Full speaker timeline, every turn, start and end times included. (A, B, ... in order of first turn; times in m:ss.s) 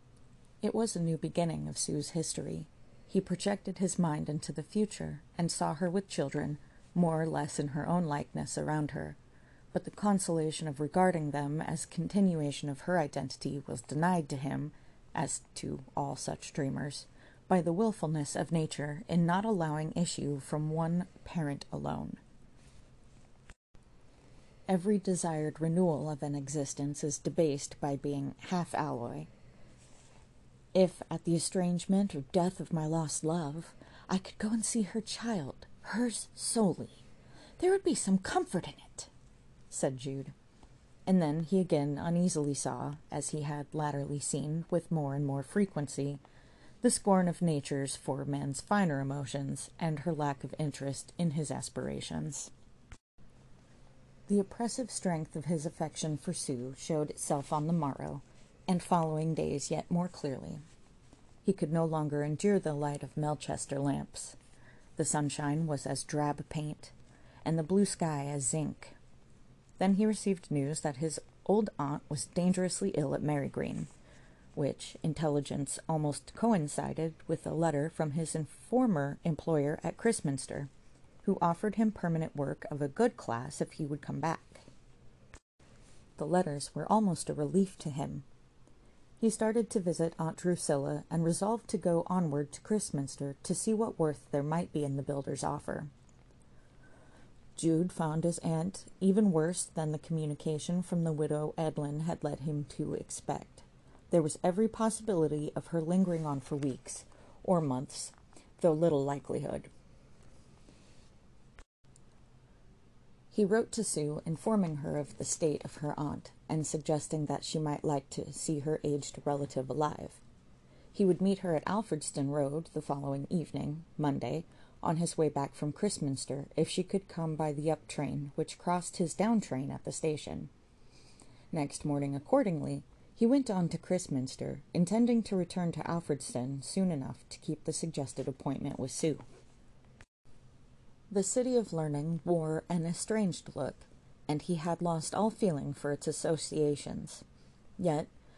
0:00.6-0:09.2 A
0:09.7-0:22.2 A
0:24.7-0:29.3 A
0:30.7-0:37.0 A
0:37.6-0:39.1 A
0:39.7-0:40.3 A
0:41.0-0:46.2 A
0:46.8-0:52.5 A
0:54.3-1:00.6 A
1:01.4-1:04.4 A
1:05.0-1:06.9 A
1:07.4-1:09.0 A
1:09.8-1:13.9 A
1:14.6-1:20.7 A
1:21.2-1:24.7 A
1:26.2-1:28.2 A
1:29.2-1:35.9 A
1:37.6-1:49.7 A
1:53.3-2:00.2 A
2:00.9-2:10.5 A
2:11.5-2:19.2 A
2:21.1-2:27.2 A
2:27.8-2:28.1 A